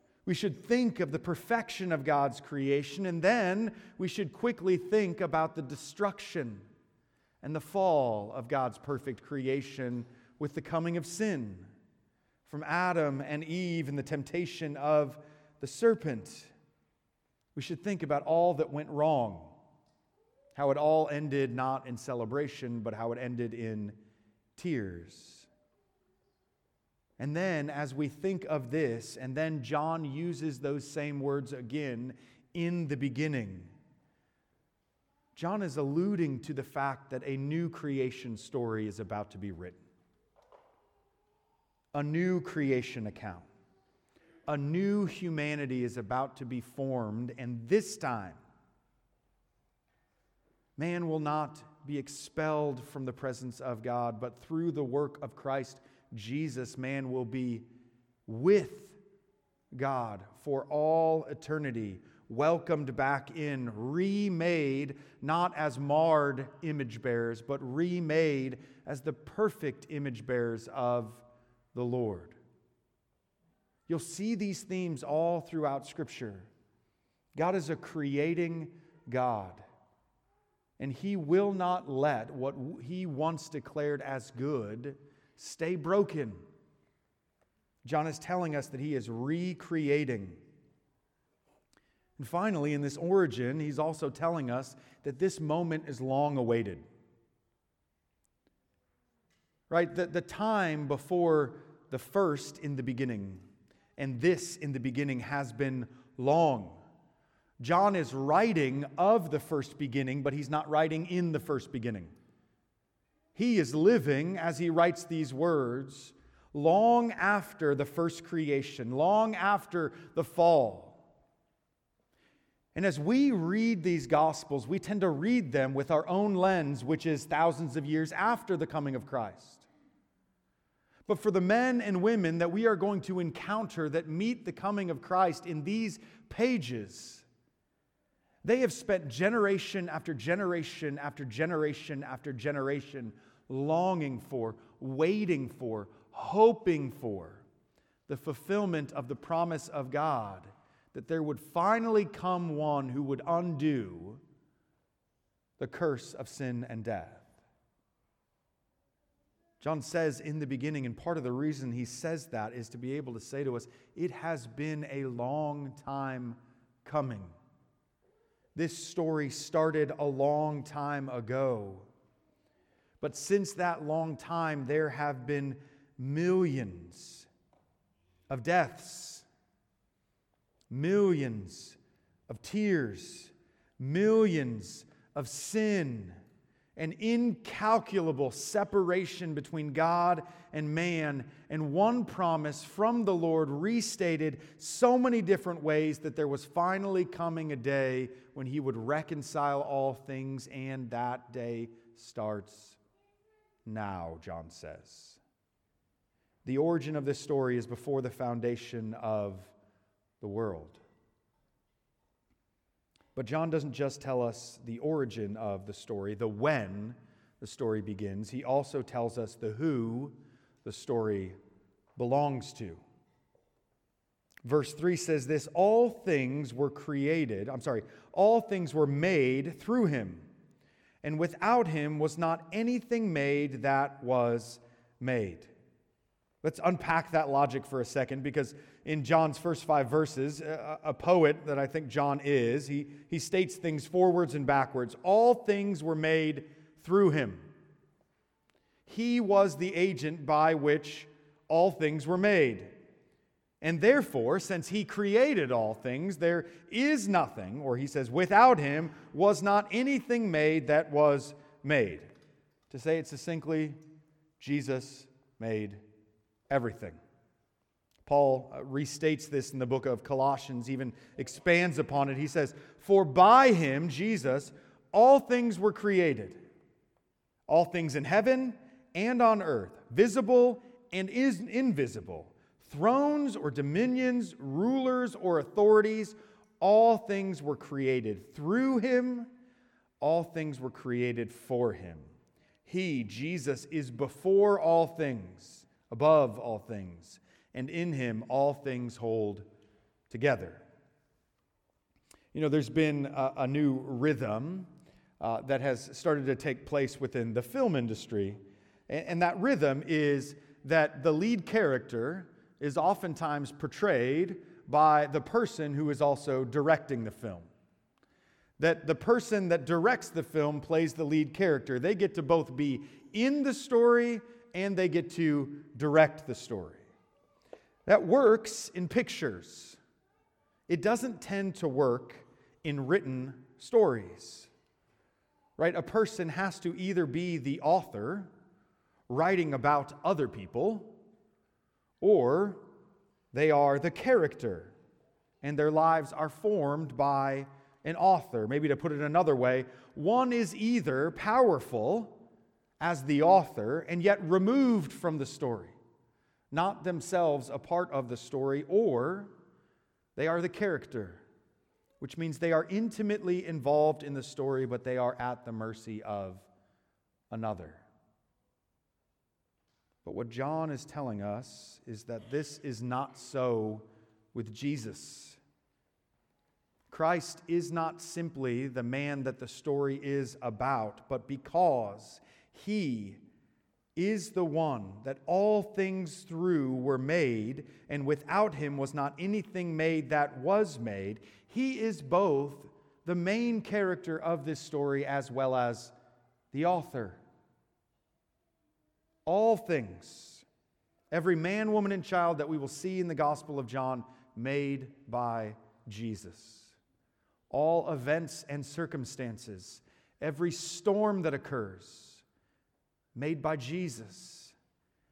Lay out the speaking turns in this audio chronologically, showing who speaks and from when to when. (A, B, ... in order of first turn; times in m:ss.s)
0:00.2-0:06.7 A
0:07.4-0:11.7 A
0:12.4-0:16.5 A
0:17.6-0:19.6 A
0:20.6-0:24.0 A
0:24.6-0:25.5 A
0:27.2-0:33.7 A
0:35.4-0:39.8 A
0:41.9-0:43.5 A
0:44.5-0:48.4 A
0:50.8-0:57.6 A
0:58.3-0:59.0 A
0:59.8-1:12.4 A
1:13.9-1:16.5 A
1:17.4-1:19.6 A
1:20.8-1:26.4 A
1:27.8-1:30.4 A
1:32.2-1:36.9 A
1:39.7-1:43.4 A
1:44.0-1:46.8 A
1:47.6-1:52.1 A
1:53.4-2:01.0 A
2:02.8-2:09.7 A
2:11.1-2:17.2 A
2:18.4-2:27.4 A
2:28.1-2:34.2 A
2:35.6-2:37.3 A
2:39.6-2:47.4 A
2:48.6-2:51.9 A
2:53.0-2:57.3 A
2:58.3-2:59.3 A
3:00.7-3:01.8 A
3:02.3-3:06.2 A
3:06.8-3:22.8 A
3:23.7-3:25.2 A
3:26.4-3:29.5 A
3:30.2-3:30.8 A
3:33.2-3:41.4 A
3:42.0-3:42.8 A
3:44.4-3:50.3 A
3:51.0-3:55.5 A
3:56.4-4:07.5 A
4:08.9-4:12.8 A
4:13.6-4:22.1 A
4:22.7-4:23.8 A
4:24.4-4:25.8 A
4:26.5-4:27.0 A
4:28.0-4:36.4 A
4:37.5-4:49.3 A
4:50.0-4:52.1 A
4:52.7-4:59.5 A
5:00.1-5:00.6 A
5:02.3-5:04.7 A
5:05.2-5:17.5 A
5:18.6-5:26.8 A
5:27.9-5:29.8 A
5:30.7-5:34.5 A
5:35.6-5:38.3 A
5:39.1-5:41.0 A
5:42.0-5:42.6 A
5:43.3-5:44.7 A
5:45.4-5:52.2 A
5:52.8-5:55.8 A
5:56.5-5:59.3 A
6:00.2-6:01.2 A
6:02.0-6:06.5 A
6:07.3-6:07.8 A
6:10.0-6:15.4 A
6:16.9-6:23.2 A
6:24.0-6:35.9 A
6:36.5-6:37.2 A
6:39.3-6:40.4 A
6:41.1-6:46.8 A
6:47.5-6:52.2 A
6:53.2-6:54.6 A